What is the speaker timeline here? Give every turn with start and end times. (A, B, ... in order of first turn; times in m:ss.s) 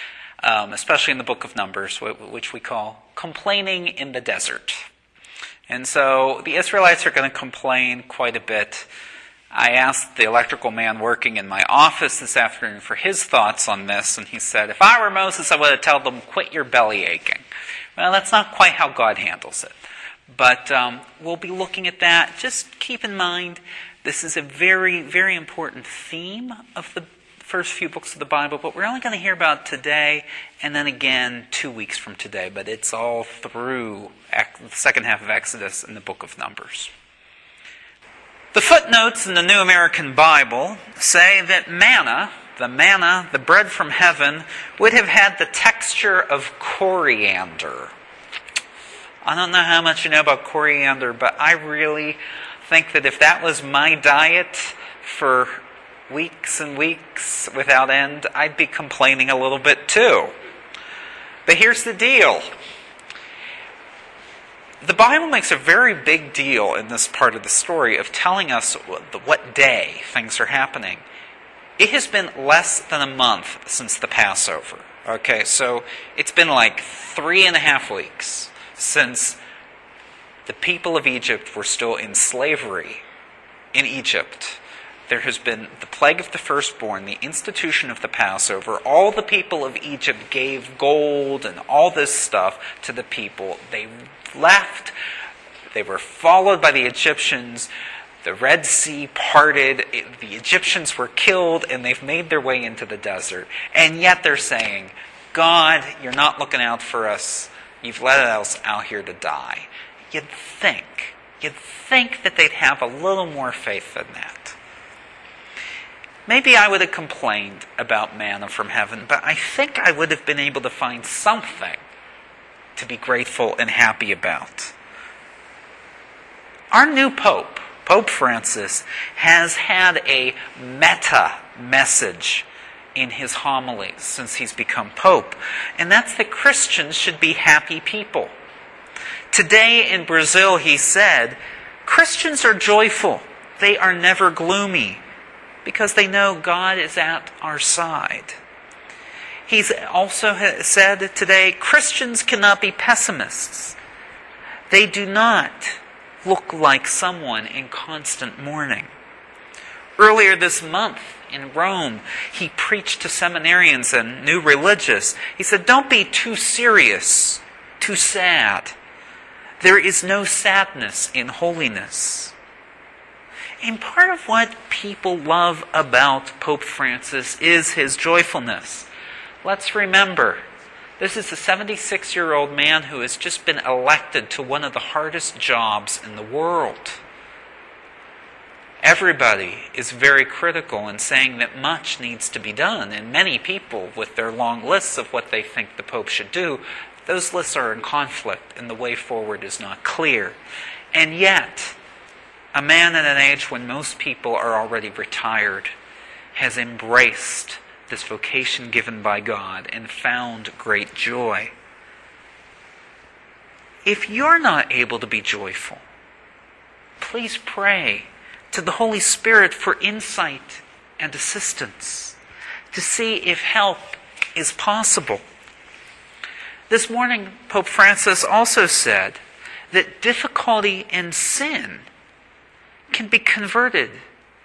0:00.4-0:04.8 A
0:05.7-0:08.9 A
0:09.5-0:17.4 A
0:18.0-0:19.7 A
0:20.3-0:36.9 A
0:38.5-0:47.9 A
0:49.2-1:00.3 A
1:01.4-1:02.5 A
1:04.8-1:11.0 A
1:11.8-1:19.4 A
1:20.4-1:23.0 A
1:23.7-1:34.9 A
1:35.7-1:37.7 A
1:38.2-1:54.6 A
1:56.2-2:01.8 A
2:02.8-2:04.7 A
2:06.7-2:18.3 A
2:19.3-2:25.0 A
2:25.6-2:28.4 A
2:29.5-2:33.8 A
2:34.7-2:38.9 A
2:40.0-2:48.8 A
2:49.6-2:52.3 A
2:53.6-2:58.9 A
2:59.4-3:00.4 A
3:01.0-3:07.0 A
3:08.8-3:20.4 A
3:20.9-3:21.8 A
3:22.5-3:25.7 A
3:26.3-3:31.5 A
3:33.8-3:35.8 A
3:37.0-3:42.2 A
3:42.7-3:45.2 A
3:46.7-3:49.2 A
3:49.7-3:51.9 A
3:52.9-3:54.0 A